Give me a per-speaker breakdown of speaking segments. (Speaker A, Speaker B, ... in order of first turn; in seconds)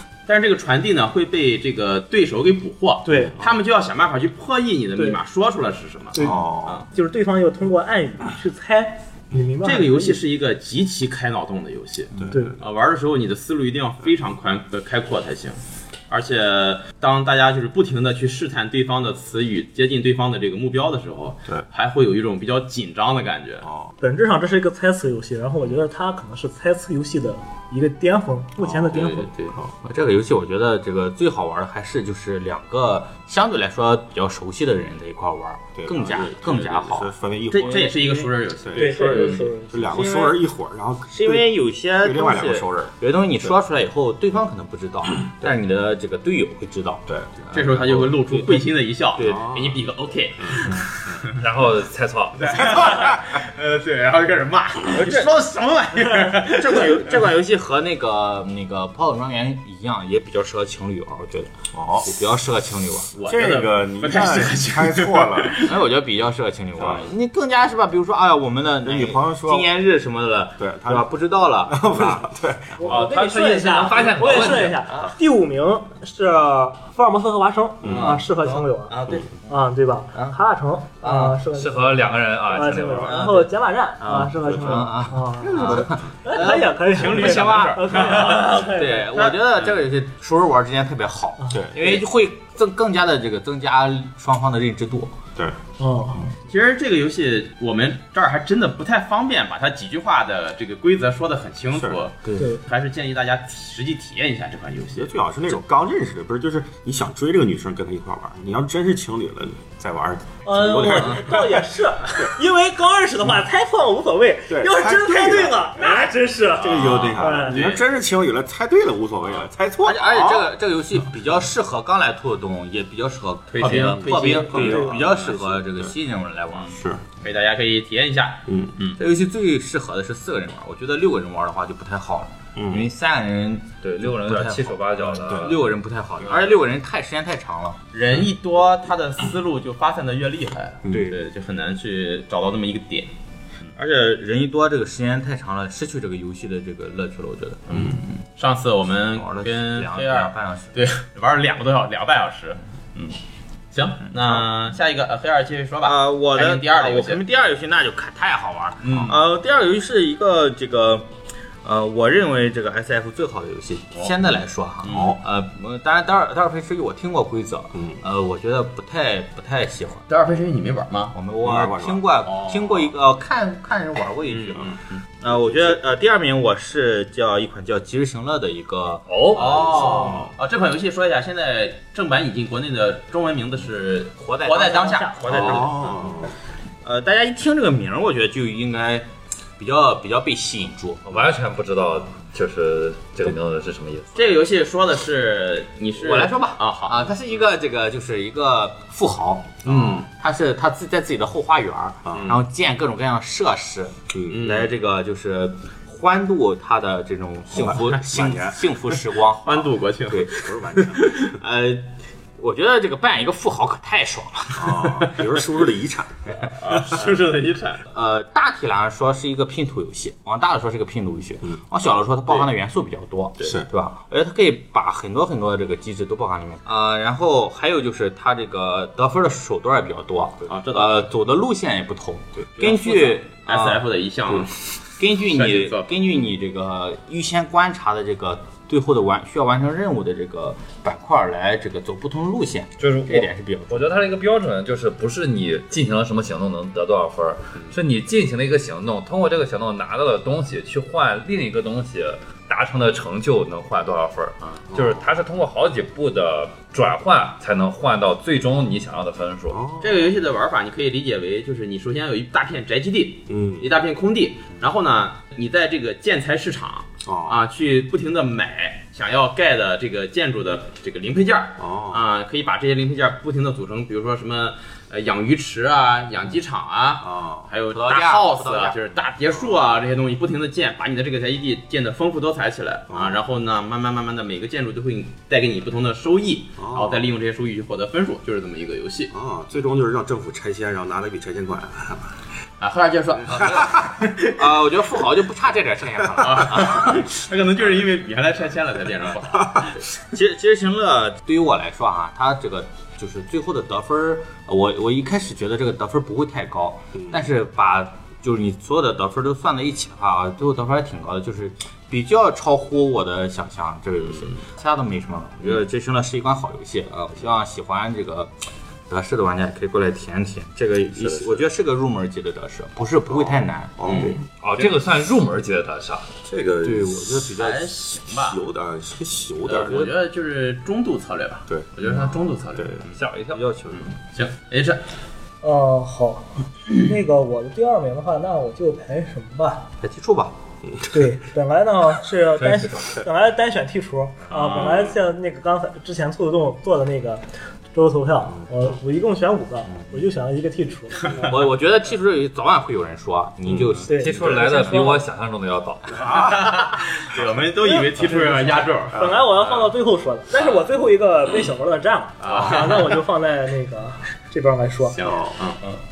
Speaker A: 0.3-6.9, 9.6-23.7, 28.7-29.6, 36.0-39.5, 47.5-51.4, 52.4-57.2, 63.1-65.8, 86.4-89.8, 96.5-105.1, 116.6-117.8, 123.5-125.2, 127.2-129.0, 137.9-143.1, 147.7-153.1, 153.7-157.2, 158.8-159.2, 163.9-164.2, 164.8-165.1, 170.1-171.1, 172.2-172.9, 174.2-175.0, 179.3-185.9, 194.2-197.1, 199.6-200.1, 202.1-202.4, 204.3-204.7, 207.5-207.9, 209.4-211.3, 214.9-215.3, 216.6-217.9, 222.2-222.5, 230.4-231.1, 232.6-234.6, 235.2-236.0, 259.8-289.1, 292.6-294.3, 296.2-299.8, 323.8-324.2, 327.4-328.4, 329.4-332.9, 333.8-334.8, 356.1-359.7, 360.3-360.7, 362.2-363.0, 364.9-365.8
Speaker B: 3.0-3.4, 6.1-6.4, 6.9-10.2, 24.0-29.3, 38.8-40.0, 72.8-78.9, 79.5-89.1, 95.8-96.3, 110.5-117.6, 184.5-185.2, 335.4-339.7, 340.9-347.2, 347.7-351.2, 353.9-355.0, 357.6-365.0
Speaker C: 3.1-3.4, 6.2-6.8, 12.2-12.5, 23.6-23.9, 35.8-38.0, 38.6-43.6, 49.2-49.8, 50.4-51.1, 61.7-62.1, 63.2-65.6, 66.8-67.1, 68.8-69.7, 70.6-73.0, 77.8-78.2, 85.5-86.0, 91.5-92.0, 104.9-112.3, 114.5-120.5, 123.6-126.0, 126.6-127.0, 128.5-128.7, 132.6-132.9, 135.1-135.6, 140.8-141.1, 158.9-159.2, 164.8-165.2, 167.7-168.0, 171.4-172.1, 175.3-175.8, 179.9-180.3, 185.3-186.3, 202.0-202.4, 204.1-204.5, 207.5-208.7, 210.3-211.1, 214.5-217.0, 254.7-255.1, 259.5-260.2, 263.3-263.7, 267.0-267.4, 271.6-272.0, 277.0-277.5, 282.9-283.2, 286.6-287.1, 289.1-292.2, 293.3-293.9, 299.4-299.8, 306.9-307.3, 320.9-321.4, 323.0-324.2, 326.2-327.4, 328.1-329.9, 331.5-332.0, 332.6-332.8, 333.3-333.8, 340.6-341.1, 353.4-353.9, 365.0-365.3
Speaker D: 29.8-40.4, 41.1-49.5, 54.9-55.3, 56.3-63.1, 65.6-73.1, 74.3-75.1, 77.8-79.5, 81.0-81.4, 83.1-83.5, 84.0-95.2, 119.8-126.8, 128.9-137.8, 140.9-141.2, 143.8-147.9, 149.2-150.7, 154.0-154.5, 155.8-161.1, 161.6-170.0, 171.1-180.3, 184.2-186.0, 186.8-191.3, 196.0-214.9, 217.9-244.0, 277.7-278.8, 293.3-297.1, 299.9-318.3, 318.9-324.2, 326.6-327.7, 339.8-340.3, 351.1-354.9
Speaker E: 51.3-52.7, 72.9-74.9, 81.5-83.3, 133.8-135.7, 179.1-179.7, 191.1-194.4, 242.8-259.6, 324.4-326.1, 332.9-333.5, 342.4-342.9, 353.9-356.3